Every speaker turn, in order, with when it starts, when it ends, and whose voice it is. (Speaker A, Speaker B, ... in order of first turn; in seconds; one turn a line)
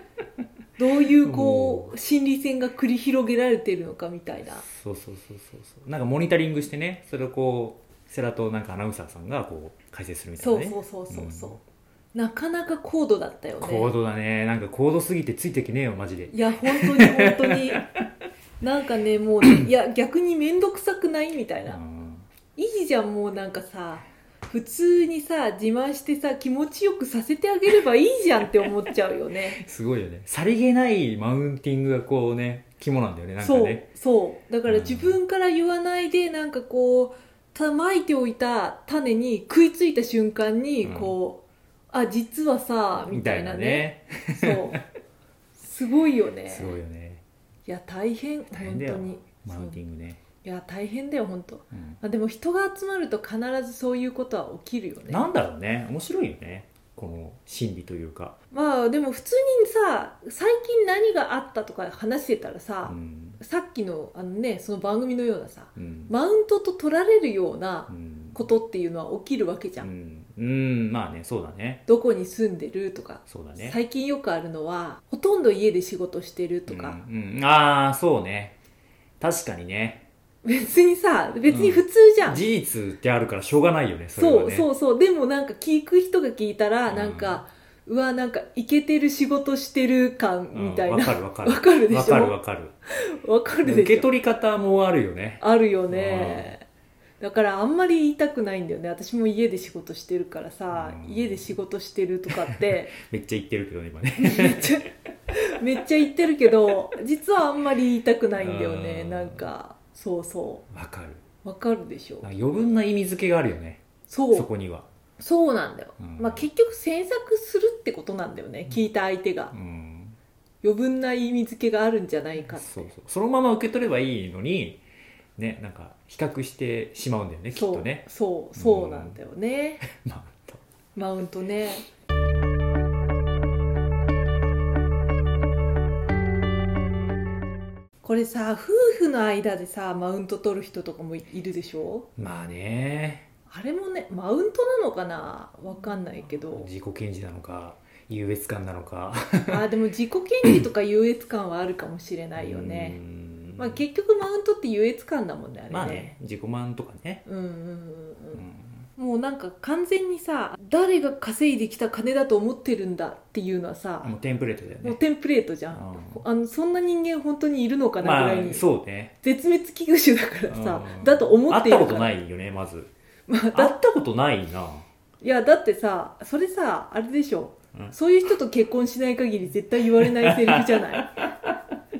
Speaker A: 0.8-4.6
Speaker B: 1.2-1.9
Speaker B: 4.5-11.6
Speaker A: 10.4-11.6
Speaker A: 12.1-13.9
Speaker B: 13.6-17.9
Speaker A: 16.3-17.9
Speaker A: 18.6-21.8
Speaker B: 21.6-22.3
Speaker A: 22.6-29.6
Speaker B: 29.5-33.9
Speaker A: 33.4-44.8
Speaker B: 34.7-35.2
Speaker B: 40.8-41.1
Speaker B: 43.1-44.8
Speaker A: 45.6-46.8
Speaker B: 46.5-47.2
Speaker A: 47.6-49.8
Speaker B: 48.5-50.2
Speaker A: 50.4-55.3
Speaker B: 51.7-52.0
Speaker B: 55.1-58.4
Speaker A: 58.5-69.9
Speaker B: 62.8-63.4
Speaker B: 65.8-66.1
Speaker B: 67.9-68.4
Speaker B: 69.8-71.8
Speaker A: 71.9-77.0
Speaker B: 73.2-73.8
Speaker B: 76.7-78.5
Speaker B: 79.2-80.0
Speaker A: 80.4-82.4
Speaker B: 81.5-84.7
Speaker A: 84.2-92.3
Speaker B: 86.9-87.4
Speaker B: 90.5-92.7
Speaker A: 93.0-94.1
Speaker B: 93.6-96.5
Speaker A: 95.4-96.6
Speaker A: 97.2-102.9
Speaker B: 100.7-101.5
Speaker B: 102.4-104.9
Speaker A: 104.2-110.6
Speaker B: 108.3-109.5
Speaker B: 110.7-111.2
Speaker A: 111.4-112.3
Speaker B: 112.2-114.9
Speaker A: 114.1-114.5
Speaker A: 115.2-119.5
Speaker B: 116.0-116.5
Speaker B: 119.5-120.2
Speaker A: 120.6-122.9
Speaker B: 122.5-124.8
Speaker B: 125.4-129.2
Speaker A: 127.5-129.8
Speaker B: 129.8-130.6
Speaker A: 130.9-131.8
Speaker A: 138.0-142.1
Speaker B: 142.2-143.2
Speaker A: 143.5-146.7
Speaker B: 146.2-149.7
Speaker A: 149.5-153.0
Speaker B: 152.4-153.8
Speaker A: 153.6-156.1
Speaker B: 155.7-157.2
Speaker A: 157.2-158.4
Speaker B: 158.3-158.8
Speaker A: 159.0-164.1
Speaker B: 164.0-165.0
Speaker A: 164.8-168.6
Speaker B: 165.7-166.2
Speaker B: 168.0-169.1
Speaker A: 169.2-172.1
Speaker B: 170.5-172.9
Speaker A: 173.3-173.7
Speaker B: 173.5-174.8
Speaker A: 175.2-181.2
Speaker B: 180.0-181.5